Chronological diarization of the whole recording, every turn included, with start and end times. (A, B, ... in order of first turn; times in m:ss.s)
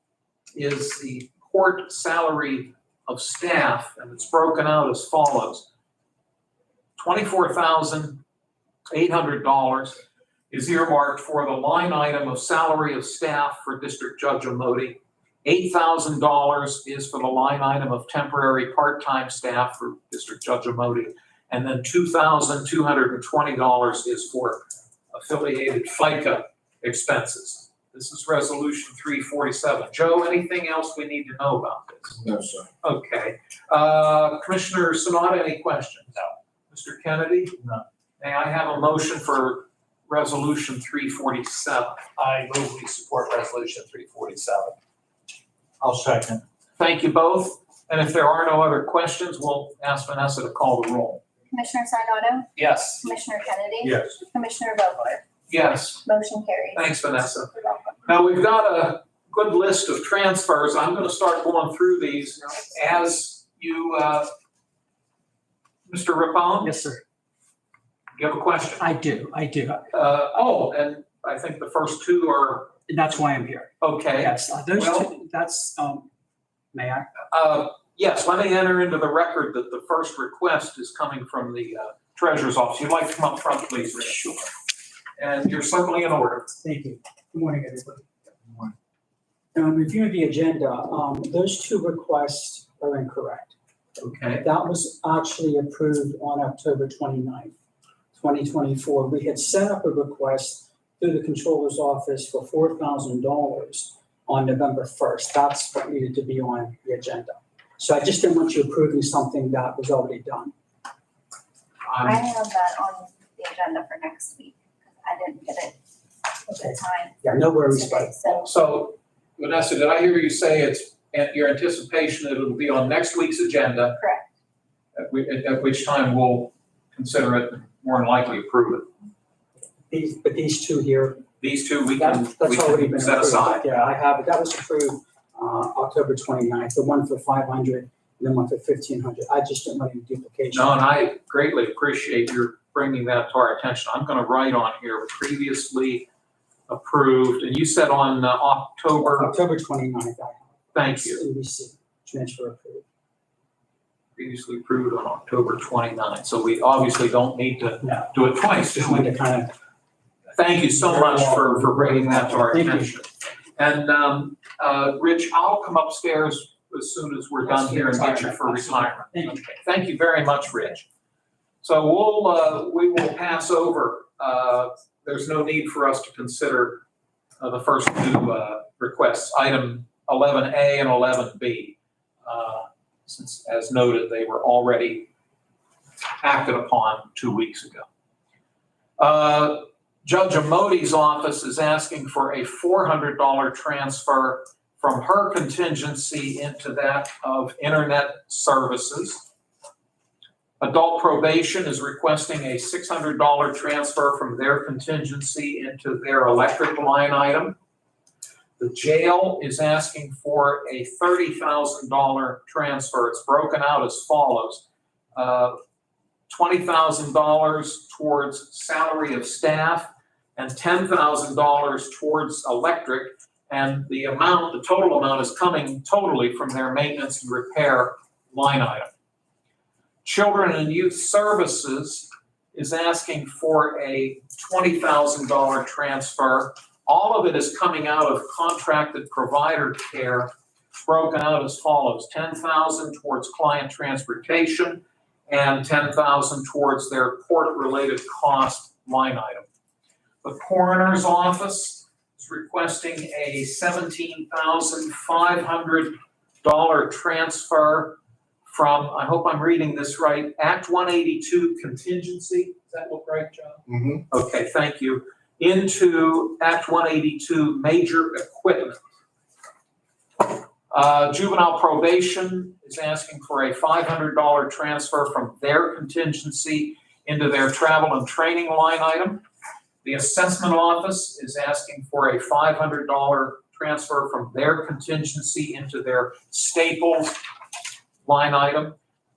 0:00.6-0:05.7 A
0:07.0-0:08.2 A
0:08.9-0:10.0 A
0:10.5-0:32.2 A
0:32.3-0:32.6 B
0:32.8-0:36.2 A
0:36.7-0:37.6 A
0:38.2-0:42.0 A
0:42.2-0:44.8 B
0:45.8-0:46.4 B
0:46.8-0:51.2 A
0:51.5-0:55.2 C
0:52.6-0:53.0 B
0:55.5-0:56.1 A
0:56.0-0:56.9 C
0:56.8-0:57.5 A
0:57.5-0:58.0 C
0:58.0-1:04.3 A
1:05.9-1:06.9 A
1:06.6-1:07.0 D
1:08.2-1:08.8 A
1:08.8-1:09.9 D
1:09.9-1:12.7 A
1:12.9-1:16.1 D
1:13.8-1:15.1 A
1:16.7-1:17.1 D
1:17.3-1:24.3 A
1:24.0-1:24.3 D
1:25.2-1:26.5 A
1:26.6-1:28.1 D
1:29.5-1:33.5 D
1:34.0-1:34.4 A
1:34.4-1:37.5 D
1:38.2-1:50.5 D
1:51.9-1:52.2 A
1:52.0-1:55.8 C
1:56.4-1:57.2 C
1:57.2-1:58.1 D
1:57.7-1:58.5 C
1:58.3-2:04.0 A
2:04.0-2:04.3 C
2:05.0-2:08.9 A
2:09.9-2:11.2 D
2:11.4-2:13.8 A
2:12.0-2:20.8 D
2:20.5-2:26.1 A
2:26.7-2:29.3 A
2:29.0-2:32.8 D
2:30.7-2:31.2 A
2:34.2-2:39.2 A
2:37.8-2:39.5 D
2:40.4-2:50.9 A
2:40.8-2:42.9 D
2:47.4-2:49.4 D
2:51.6-2:56.8 A
2:57.4-3:05.1 A
3:06.2-3:07.9 A
3:09.0-3:19.2 A
3:20.6-3:27.6 A
3:28.6-3:35.6 A
3:36.3-3:48.9 A
3:50.0-4:00.3 A
4:00.8-4:09.5 A
4:10.2-4:28.8 A
4:30.7-4:39.2 A
4:39.8-4:47.2 A
4:48.0-4:48.8 A